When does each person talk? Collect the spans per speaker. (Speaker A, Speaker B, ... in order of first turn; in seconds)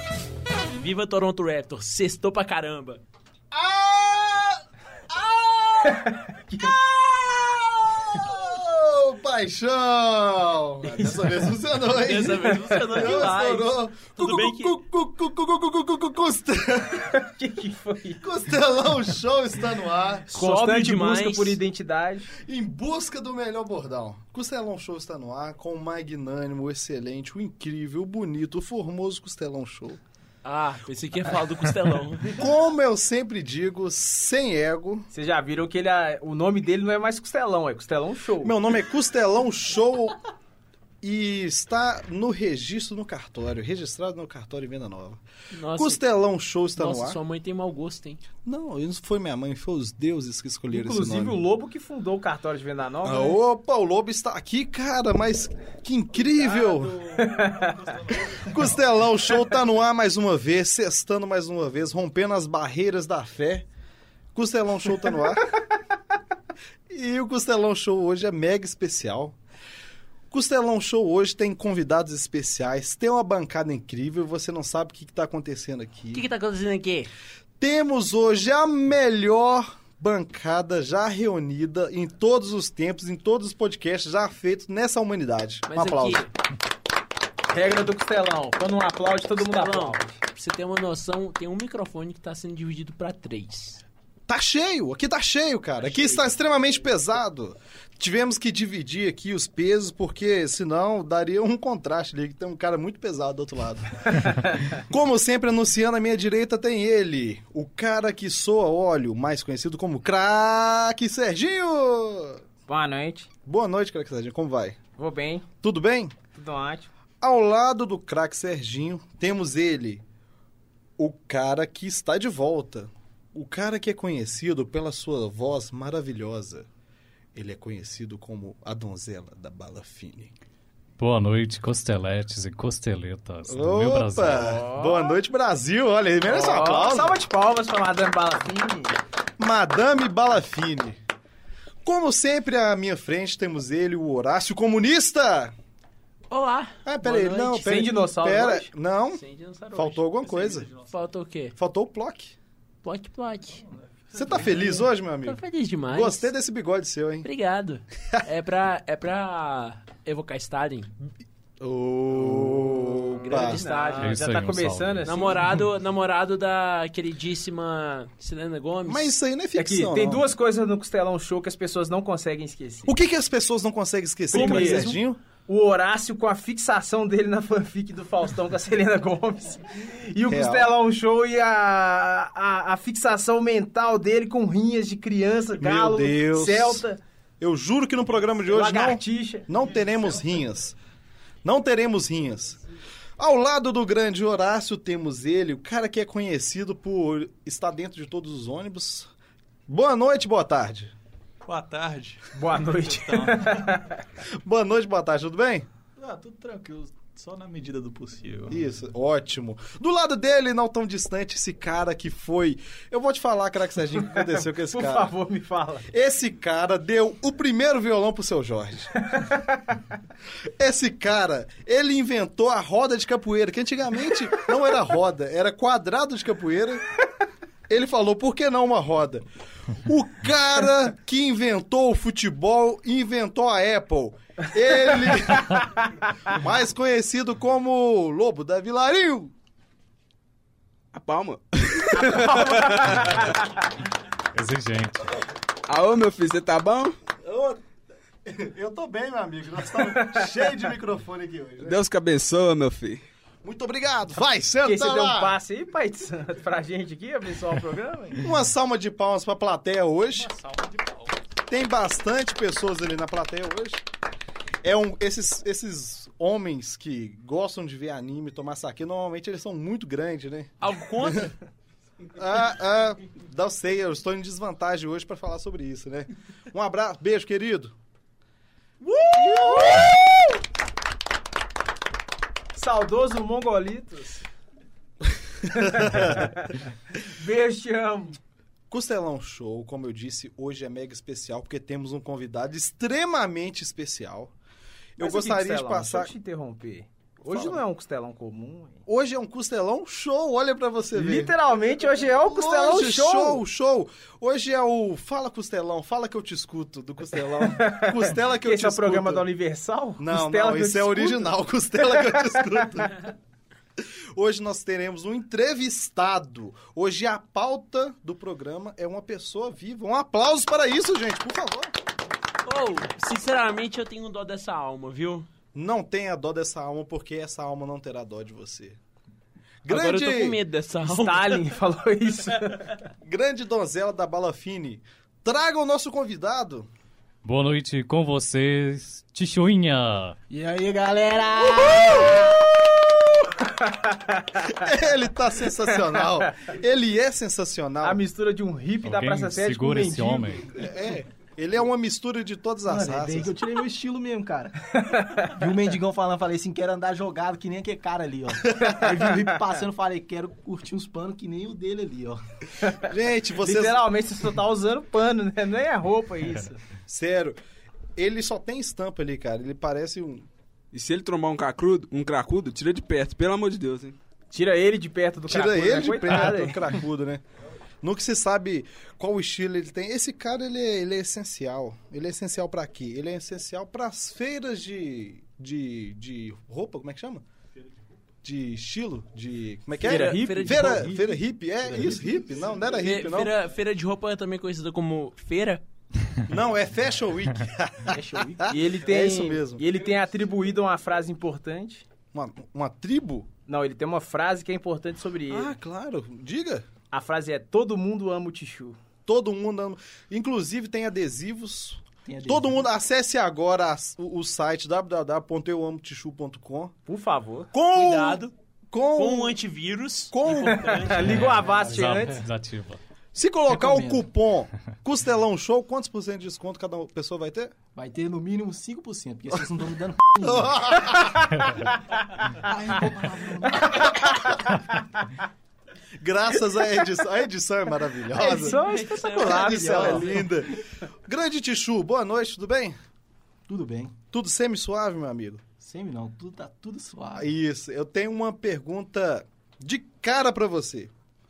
Speaker A: 0.8-3.0, 12.0-14.7, 20.3-21.6, 30.4-32.4, 45.5-46.0, 46.8-48.2, 76.1-77.1, 85.7-86.3, 89.4-93.8, 146.3-147.7, 149.1-150.0, 150.9-151.5, 152.8-153.6, 155.2-156.3, 157.2-160.9, 162.3-164.2, 165.0-169.1, 174.3-174.9, 270.6-271.3, 322.4-325.3, 329.7-331.5, 389.8-390.9, 392.8-395.6, 417.7-418.3, 418.9-421.4, 438.2-440.3
Speaker B: 3.5-17.1, 18.2-20.3, 22.4-30.0, 32.3-35.1, 38.4-40.2, 41.0-45.2, 45.7-47.2, 48.5-51.4, 53.0-57.0, 58.4-63.6, 64.3-65.4, 66.9-69.3, 70.3-76.2, 77.6-86.2, 94.3-103.9, 104.8-112.4, 113.5-114.8, 115.6-116.1, 117.2-120.0, 121.0-126.7, 127.3-130.3, 133.5-137.2, 139.4-141.0, 141.8-145.5, 146.8-149.2, 149.7-150.7, 151.6-152.3, 154.1-157.3, 161.6-163.6, 168.8-170.2, 172.8-175.2, 180.3-180.7, 185.6-186.8, 187.4-190.8, 191.4-192.6, 193.2-199.1, 199.7-200.9, 204.3-205.7, 208.5-215.1, 215.9-218.9, 220.6-226.8, 227.7-235.7, 236.3-239.3, 247.2-247.6, 248.2-251.8, 253.4-255.3, 258.2-260.3, 261.5-263.8, 264.6-270.5, 272.1-277.7, 279.2-279.9, 288.7-294.3, 295.0-296.1, 297.2-297.6, 298.9-301.3, 302.2-309.3, 310.0-313.0, 313.8-321.7, 325.5-328.8, 329.6-330.4, 333.0-336.7, 341.6-342.4, 344.6-348.0, 350.5-353.3, 358.5-358.8, 362.8-363.8, 366.9-367.4, 367.9-370.3, 375.3-377.2, 377.8-387.2, 388.2-393.4, 396.3-399.6, 402.1-403.3, 405.3-406.6, 409.1-416.7, 417.5-419.4, 420.1-421.0, 423.1-427.5, 430.2-431.3, 436.0-440.5, 441.1-442.8, 444.1-445.4, 447.1-450.9
Speaker C: 5.8-6.7, 10.8-11.3, 12.7-12.9, 17.1-18.2, 20.3-22.3, 35.1-38.5, 50.7-53.4, 57.2-57.7, 87.5-90.2, 104.2-104.8, 112.7-113.3, 115.0-115.5, 116.3-116.9, 134.2-135.2, 136.2-138.9, 147.6-148.7, 163.3-165.4, 169.6-172.9, 174.3-187.0, 188.5-189.5, 202.3-204.0, 214.1-215.9, 219.1-219.4, 241.9-243.4, 249.9-250.3, 254.6-258.2, 278.9-279.9, 282.5-284.2, 285.4-288.2, 295.0-298.8, 300.9-303.4, 307.4-312.6, 330.8-332.7, 343.4-344.6, 345.6-346.3, 347.8-350.4, 354.7-355.3, 362.6-366.6, 374.3-376.6, 389.8-390.9, 398.5-401.8, 403.5-405.5, 406.9-408.8, 416.9-417.5, 420.3-422.2, 430.9-431.2, 433.6-434.8, 438.1-440.2
Speaker D: 56.1-59.3, 150.1-150.9, 153.5-154.8, 201.4-203.8, 206.0-208.6, 260.2-261.1, 387.5-387.9, 392.5-392.8
Speaker E: 131.0-134.5, 164.0-165.6, 244.3-245.1, 337.2-340.1, 348.8-350.5, 421.0-422.8
Speaker F: 240.9-243.2, 245.7-246.9, 251.6-253.0, 370.7-373.9
Speaker G: 340.3-342.2, 352.7-354.5, 355.3-362.2, 390.9-392.2, 397.9-398.6, 412.1-412.6, 423.5-424.1, 427.7-430.7, 432.3-434.0, 443.5-444.0, 445.6-447.3